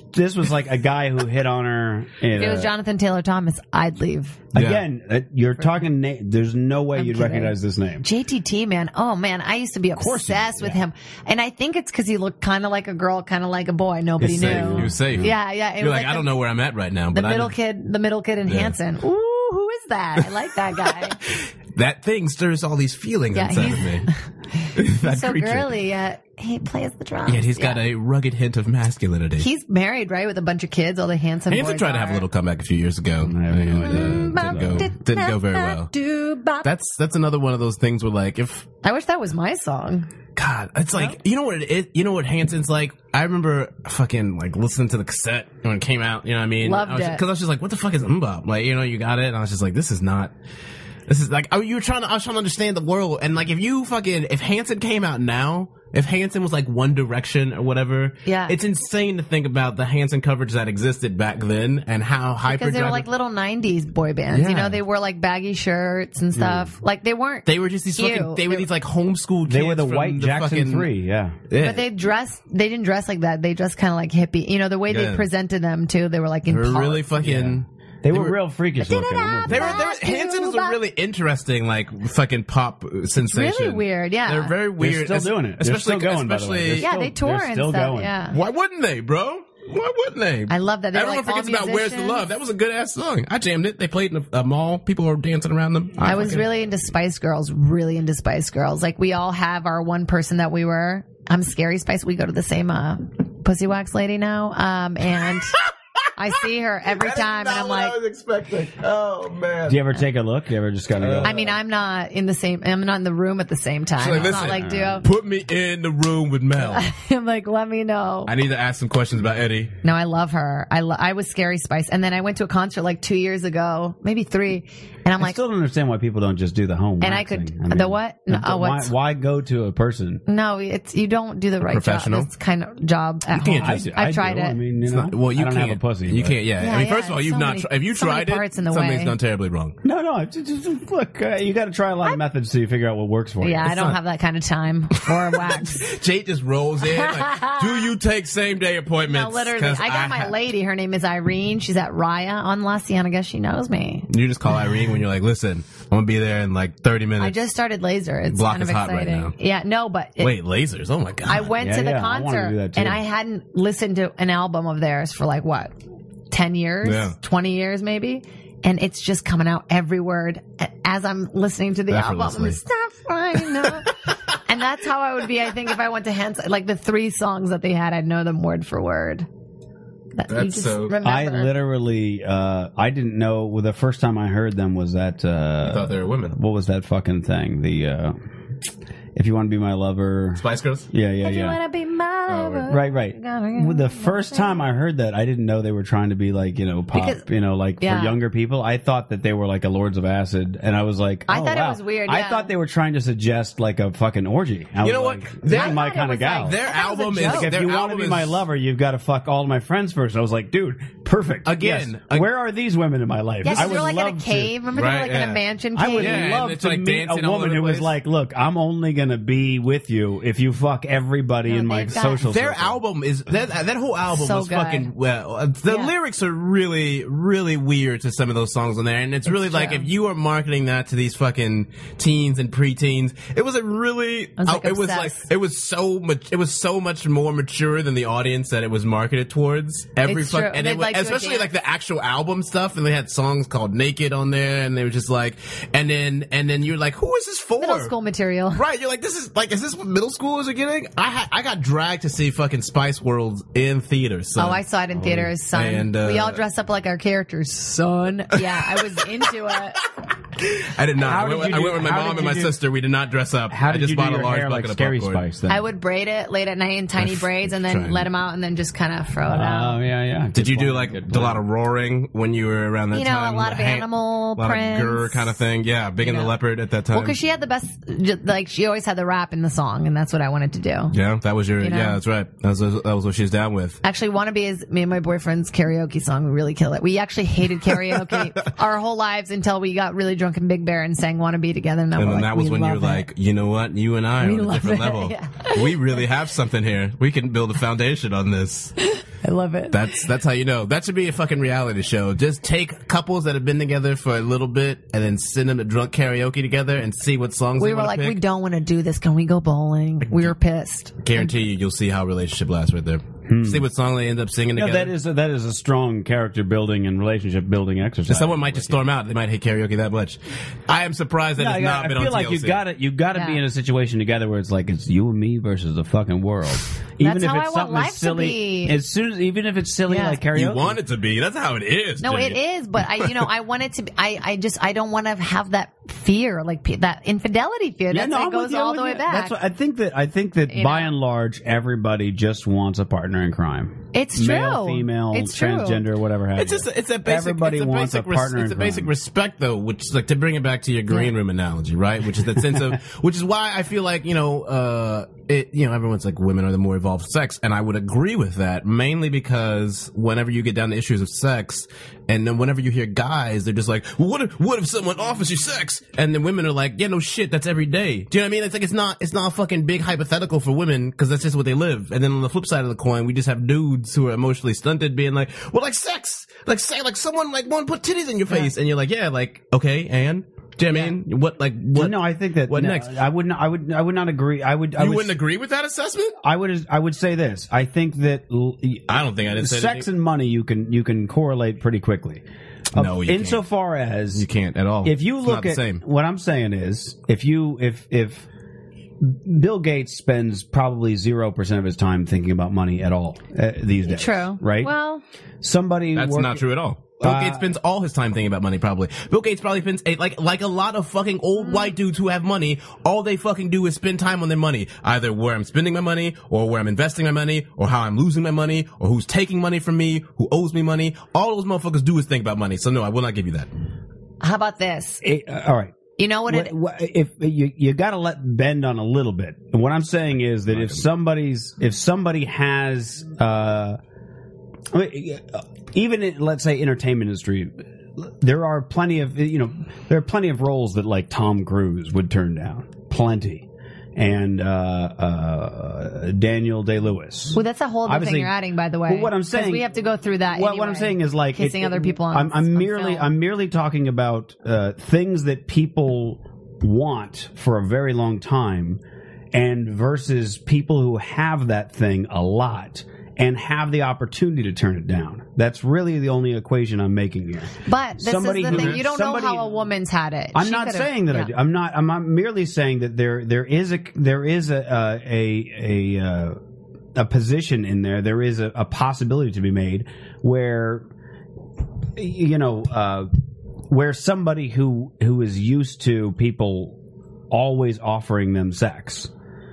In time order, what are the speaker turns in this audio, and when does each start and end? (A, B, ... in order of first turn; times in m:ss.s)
0:00.1-0:02.7 A
0:02.3-0:04.4 B
0:04.5-0:08.0 A
0:04.5-0:04.8 C
0:07.0-0:16.3 B
0:09.9-0:10.8 A
0:14.2-0:15.3 A
0:14.2-0:17.5 C
0:17.1-0:21.2 B
0:18.5-0:18.7 C
0:20.8-0:24.1 C
0:23.3-0:27.8 B
0:24.7-0:25.7 C
0:27.2-0:29.5 C
0:29.4-0:32.2 B
0:31.5-0:35.9 C
0:33.2-0:34.9 A
0:33.8-0:36.7 B
0:36.6-0:38.7 C
0:38.8-0:40.1 B
0:40.4-0:50.3 C
0:46.6-0:47.2 B
0:51.1-1:03.1 C
0:58.2-0:58.6 B
1:02.4-1:08.6 B
1:04.3-1:04.8 C
1:06.3-1:06.7 A
1:07.4-1:10.9 C
1:09.4-1:11.4 A
1:11.5-1:11.8 C
1:11.6-1:17.0 B
1:14.9-1:15.2 C
1:16.5-1:18.4 C
1:17.2-1:19.8 A
1:18.8-1:20.8 B
1:19.5-1:26.9 C
1:23.2-1:24.5 B
1:24.8-1:28.1 A
1:26.8-1:28.4 B
1:28.3-1:36.5 C
1:30.5-1:32.2 B
1:36.0-1:45.6 B
1:46.2-1:48.0 B
1:46.9-1:49.8 C
1:49.7-1:51.4 A
1:51.0-1:51.5 C
1:51.2-1:55.0 B
1:54.0-1:56.9 C
1:54.3-1:55.0 A
1:56.6-1:58.3 B
1:58.2-1:59.7 C
1:59.8-2:05.4 B
2:05.2-2:10.2 A
2:07.0-2:08.9 B
2:10.3-2:14.6 B
2:11.6-2:12.3 C
2:13.3-2:13.8 C
2:13.6-2:16.4 A
2:14.8-2:19.8 C
2:16.6-2:19.2 B
2:19.8-2:23.7 A
2:23.4-2:25.8 B
2:23.6-2:24.0 C
2:25.0-2:30.3 C
2:26.9-2:27.9 B
2:29.1-2:34.1 B
2:34.1-2:37.4 C
2:37.2-2:40.3 B
2:38.3-2:39.3 C
2:40.2-2:41.5 C
2:41.2-2:45.8 B
2:41.6-2:43.0 A
2:46.3-2:53.9 B
2:46.8-2:47.1 C
2:51.9-2:52.6 C
2:54.4-2:59.3 B
3:00.2-3:01.5 B
3:00.3-3:00.9 C
3:01.0-3:08.2 A
3:05.6-3:06.4 C
3:09.1-3:11.6 A
3:10.4-3:10.9 C
3:11.2-3:14.7 B
3:12.3-3:12.7 C
3:12.7-3:26.6 A
3:16.9-3:17.2 B
3:17.8-3:18.2 B
3:21.3-3:22.5 B
3:24.8-3:25.8 C
3:25.5-3:27.5 B
3:26.4-3:28.4 C
3:27.2-3:34.5 A
3:31.4-3:32.3 C
3:33.4-3:36.4 B
3:33.5-3:33.8 C
3:34.7-3:35.4 C
3:35.7-3:42.8 A
3:36.0-3:37.9 C
3:41.5-3:42.2 B
3:42.2-4:07.9 C
3:44.1-3:44.9 B
3:45.7-3:45.9 B
3:49.3-3:49.9 B
3:54.4-3:55.2 B
4:00.0-4:01.5 B
4:07.6-4:08.6 B
4:08.5-4:14.6 C
4:14.4-4:19.8 B
4:15.0-4:15.3 A
4:15.5-4:16.4 C
4:18.4-4:19.0 C
4:20.4-4:25.2 C
4:21.0-4:22.6 A
4:23.5-4:25.6 A
4:25.5-4:29.8 B
4:27.0-4:28.0 C
4:29.3-4:31.4 A
4:30.3-4:37.2 C
4:32.9-4:35.3 B
4:36.0-4:36.3 B
4:36.9-4:40.9 B
4:40.9-4:43.8 C
4:41.6-4:42.0 B
4:43.8-4:53.0 B
4:47.9-4:48.2 C
4:52.0-4:58.8 C
4:54.2-4:56.0 B
4:58.8-4:59.9 B
4:59.7-5:08.2 C
5:07.6-5:11.3 B
5:10.0-5:10.3 C
5:11.0-5:14.9 C
5:13.3-5:13.6 A
5:14.5-5:18.8 A
5:18.1-5:22.6 C
5:21.4-5:30.8 A
5:23.1-5:23.4 B
5:27.0-5:28.8 B
5:29.9-5:30.2 B
5:30.3-5:33.3 C
5:32.0-5:39.4 B
5:37.9-5:48.9 A
5:40.5-5:40.9 B
5:43.9-5:45.8 B
5:46.4-6:22.9 C
6:21.7-6:25.2 A
6:24.8-6:26.2 C
6:26.2-6:34.3 A
6:28.9-6:29.8 C
6:32.7-6:33.4 C
6:34.1-6:35.8 C
6:34.8-6:38.3 A
6:39.0-6:44.7 A
6:43.8-6:45.0 B
6:45.4-6:46.4 A
6:45.9-7:03.5 C
6:47.0-6:47.5 A
6:51.4-6:51.7 B
7:04.2-7:05.0 B
7:05.0-7:13.8 A
7:06.0-7:06.5 B
7:10.5-7:10.8 C
7:14.7-7:28.3 A
7:27.3-7:33.1 B
7:28.9-7:29.7 A
7:30.3-7:38.8 A
7:39.3-7:49.6 A
7:47.6-7:51.3 B
7:48.5-7:48.8 C
7:50.3-7:56.4 A
7:56.9-8:00.8 A
8:02.0-8:03.1 A
8:03.7-8:06.8 A
8:07.3-8:09.1 A